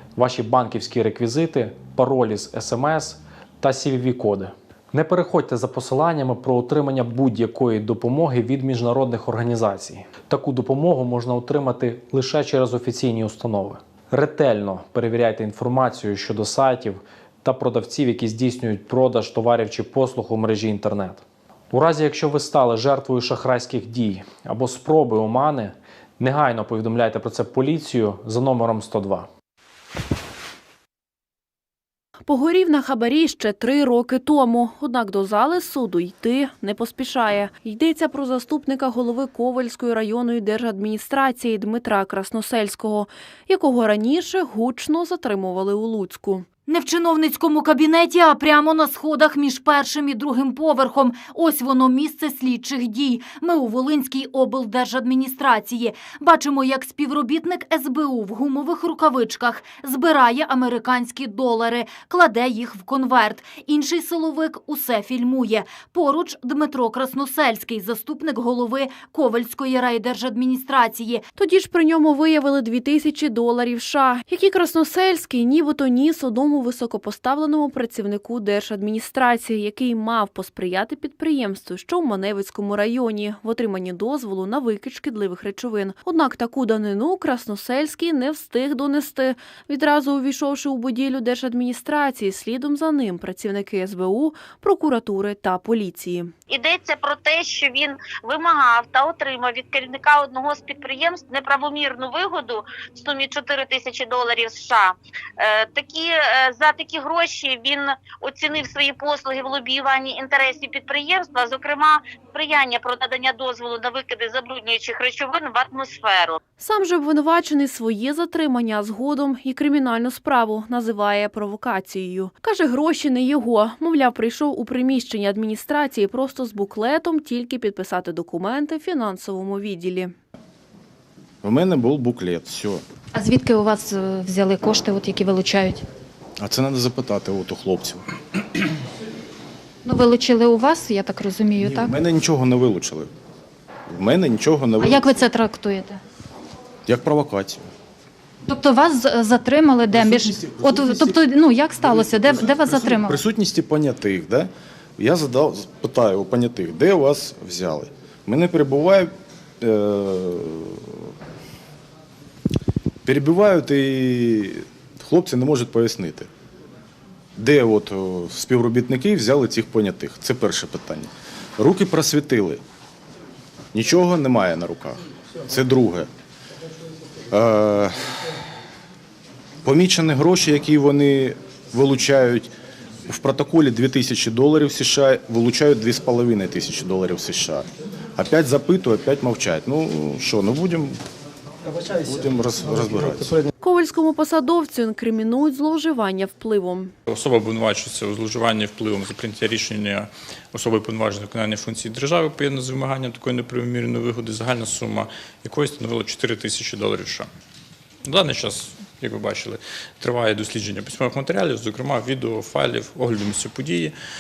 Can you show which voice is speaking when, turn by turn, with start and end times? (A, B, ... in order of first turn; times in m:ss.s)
0:00.1-0:29.3 A
0:32.2-0:46.5 B
0:46.6-1:11.2 C
1:11.4-1:36.3 B
1:36.5-1:56.4 D
1:56.6-2:10.1 B
2:11.4-2:12.8 E
2:13.1-2:15.9 F
2:16.4-2:18.0 E
2:19.8-2:22.0 F
2:21.6-2:23.1 E
2:23.9-2:25.3 E
2:24.8-2:26.0 F
2:26.9-2:27.7 E
2:28.5-2:33.2 F
2:29.9-2:41.1 E
2:43.0-2:46.3 E
2:47.4-2:52.6 E
2:53.7-2:56.1 E
2:57.3-2:58.2 E
2:59.6-3:02.5 E
3:03.1-3:11.0 E
3:12.0-3:13.4 E
3:13.6-3:16.9 B
3:17.1-3:27.3 G
3:28.0-3:34.0 G